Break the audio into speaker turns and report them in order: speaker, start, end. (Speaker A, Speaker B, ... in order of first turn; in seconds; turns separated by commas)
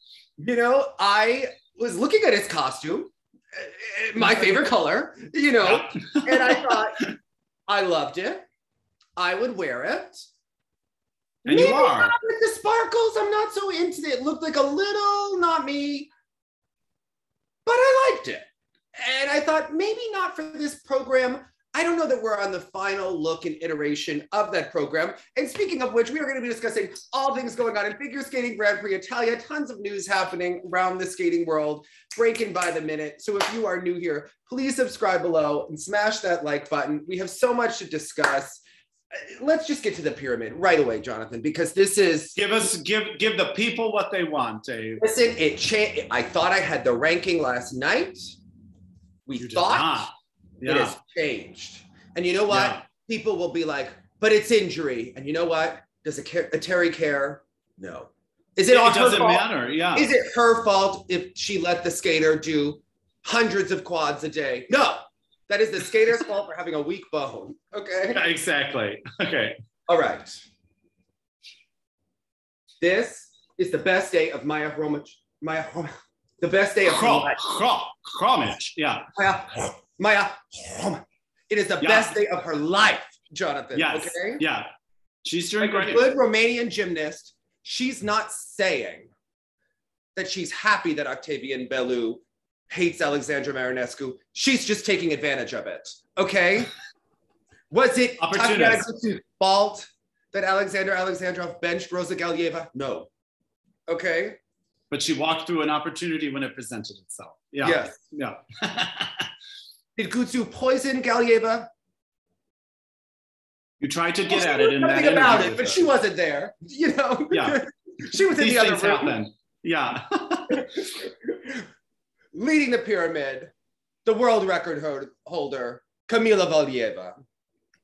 Speaker A: 0.4-7.1, Speaker B: 5.7-7.1, Speaker A: 7.7-8.4, Speaker A: 9.2-10.2, Speaker B: 11.4-12.1, Speaker A: 11.5-16.1, Speaker A: 17.7-42.6, Speaker B: 42.4-45.0, Speaker A: 45.0-48.4, Speaker A: 49.3-50.1, Speaker B: 49.4-51.0, Speaker A: 50.6-68.2, Speaker B: 52.5-52.8, Speaker B: 58.7-60.1, Speaker B: 68.1-69.6, Speaker A: 69.9-70.4, Speaker A: 72.8-77.4, Speaker B: 76.8-79.1, Speaker A: 79.1-84.4, Speaker B: 81.8-82.1, Speaker B: 83.7-84.7, Speaker B: 85.2-86.1, Speaker A: 85.6-89.1, Speaker A: 90.2-96.7, Speaker A: 97.7-103.1, Speaker B: 98.2-98.8, Speaker A: 103.9-104.4, Speaker B: 104.9-109.3, Speaker A: 107.6-108.0, Speaker A: 110.0-111.7, Speaker B: 113.8-115.9, Speaker A: 114.3-119.2, Speaker B: 117.3-117.6, Speaker B: 118.4-120.9, Speaker A: 120.5-121.7, Speaker A: 122.3-123.5, Speaker A: 124.0-127.1